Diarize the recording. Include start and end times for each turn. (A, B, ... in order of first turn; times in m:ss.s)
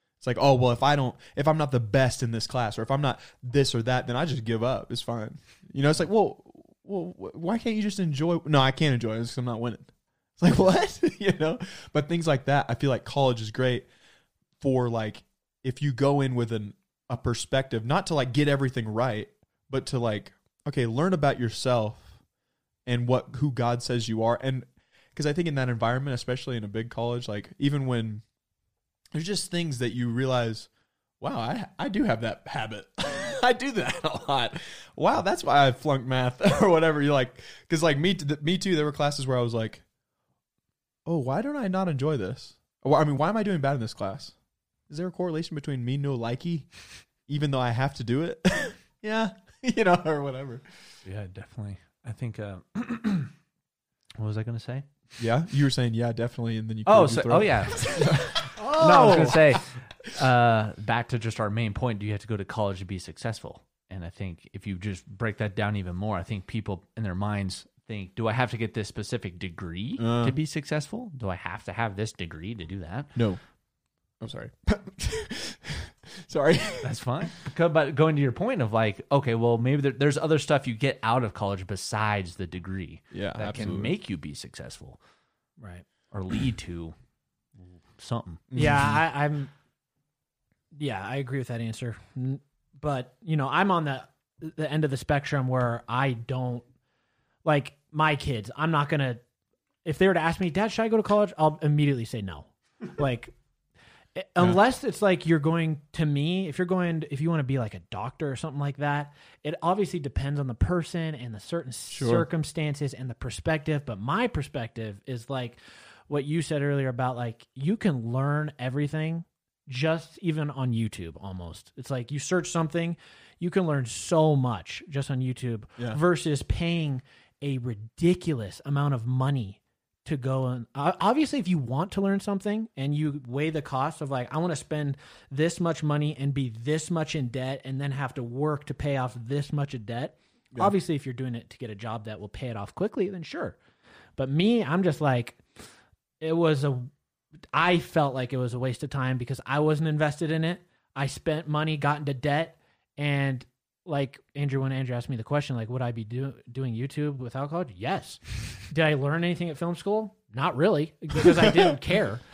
0:00.2-0:13.9 A
0:14.6-0:22.1 A
0:22.9-0:28.2 A
0:29.1-0:30.7 A
0:31.2-0:39.8 A
0:41.1-0:44.4 A
0:44.9-0:46.7 A
0:47.3-0:50.7 A
0:51.0-0:53.3 B
0:54.2-0:54.9 B
0:55.2-0:59.4 A
0:56.9-1:13.2 B
0:58.6-0:59.6 C
1:10.0-1:10.4 A
1:13.2-1:13.4 A
1:14.2-1:17.0 A
1:16.8-1:25.0 B
1:23.1-1:24.0 A
1:25.6-1:25.8 C
1:26.1-1:26.9 B
1:27.6-1:28.5 B
1:28.5-1:29.0 A
1:28.6-1:29.5 C
1:30.8-1:36.6 C
1:37.4-1:39.2 C
1:39.8-1:43.4 C
1:44.2-2:23.6 C
1:51.9-1:52.3 A
2:24.2-2:25.4 C
2:26.2-2:26.9 C
2:27.5-2:42.2 C
2:41.2-2:41.8 A